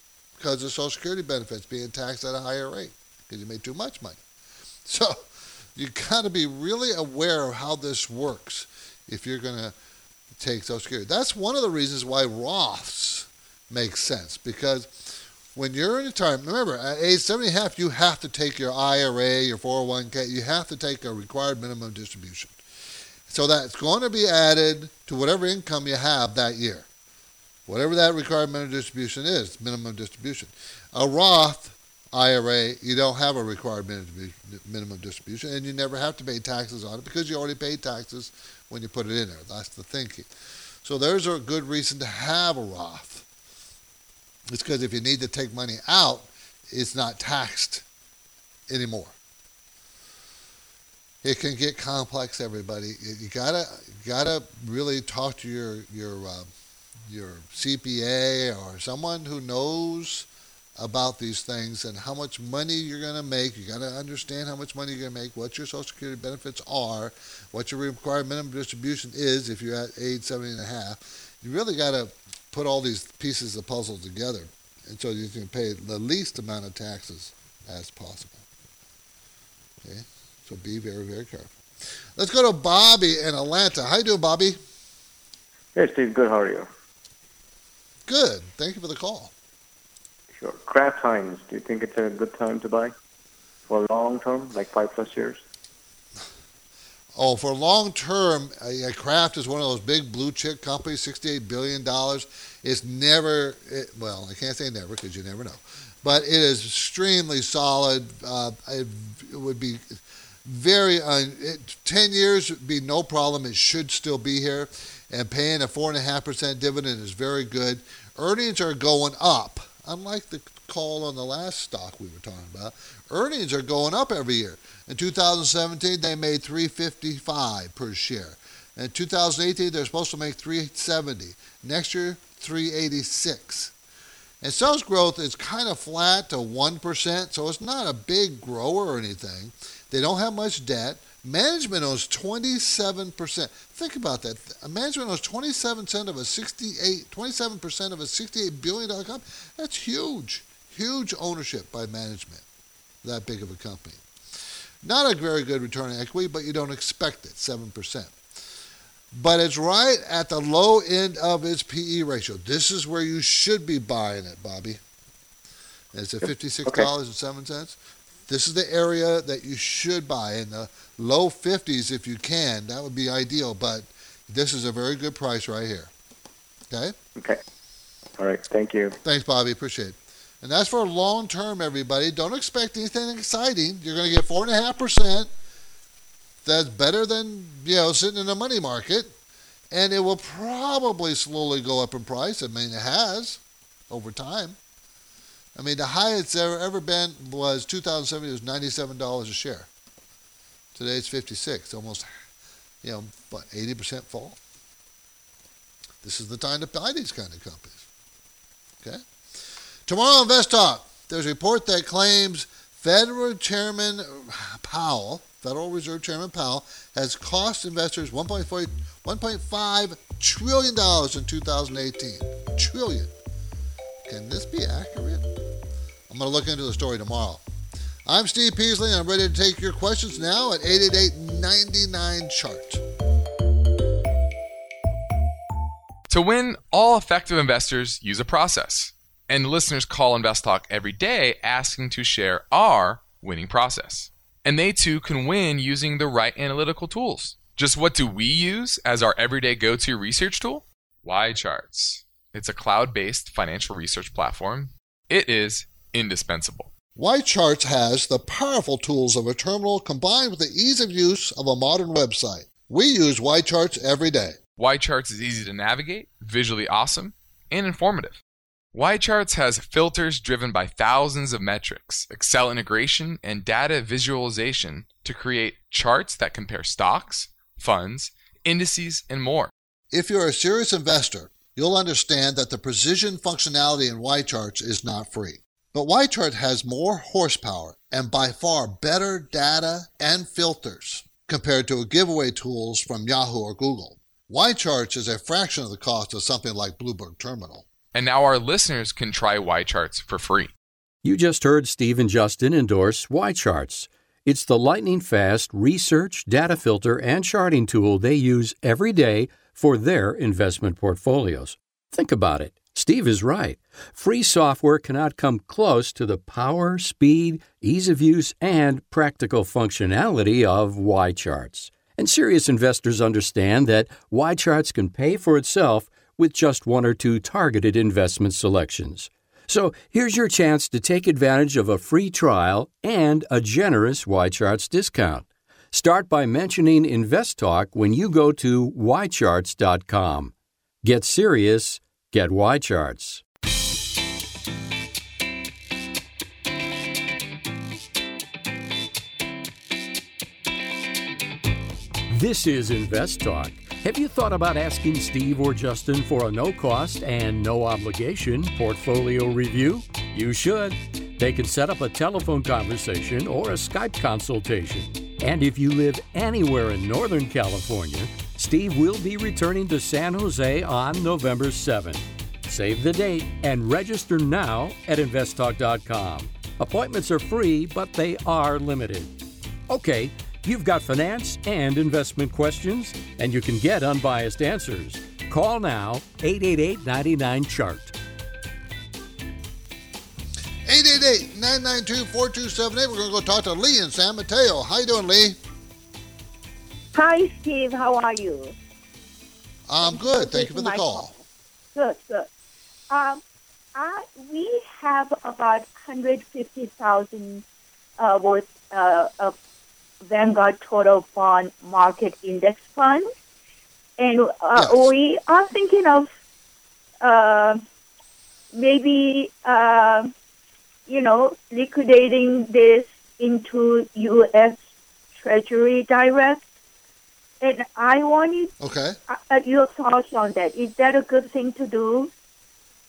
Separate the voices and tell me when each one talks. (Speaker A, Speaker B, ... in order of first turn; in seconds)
Speaker A: 0.4-4.2, 4.8-9.7, 10.4-22.6, 23.3-26.9, 27.7-40.3, 40.8-43.2, 44.5-47.8, 48.7-49.1, 51.2-56.5, 57.1-60.3, 60.8-78.4, 79.8-81.5, 82.2-84.6, 88.1-89.3, 97.1-133.7, 134.4-152.4, 153.0-154.0, 154.8-158.2, 159.1-164.8, 165.9-167.8, 168.3-175.9, 176.7-176.9, 179.0-185.3, 186.4-189.1, 189.7-194.6, 195.5-199.7, 200.7-202.1, 202.8-204.4, 206.0-207.8, 209.8-223.1, 224.0-225.3, 226.1-227.4, 228.1-232.8, 257.0-264.4, 279.9-297.7, 390.6-395.4, 399.7-401.1, 414.6-414.9, 428.6-428.9
Speaker B: 85.7-86.7, 90.4-92.9, 93.7-95.4, 178.2-179.0
Speaker C: 236.1-256.7, 264.6-268.2, 268.7-279.5, 297.9-300.5
Speaker D: 301.0-343.2, 352.1-379.1, 379.7-387.9
Speaker E: 396.9-398.5, 399.8-401.1, 401.7-402.3, 402.9-403.2, 403.8-407.4, 408.0-409.4, 410.1-413.1, 414.0-416.1, 417.0-417.6, 418.5-420.1, 420.9-424.6, 425.2-426.4, 427.4-428.5, 429.1-432.1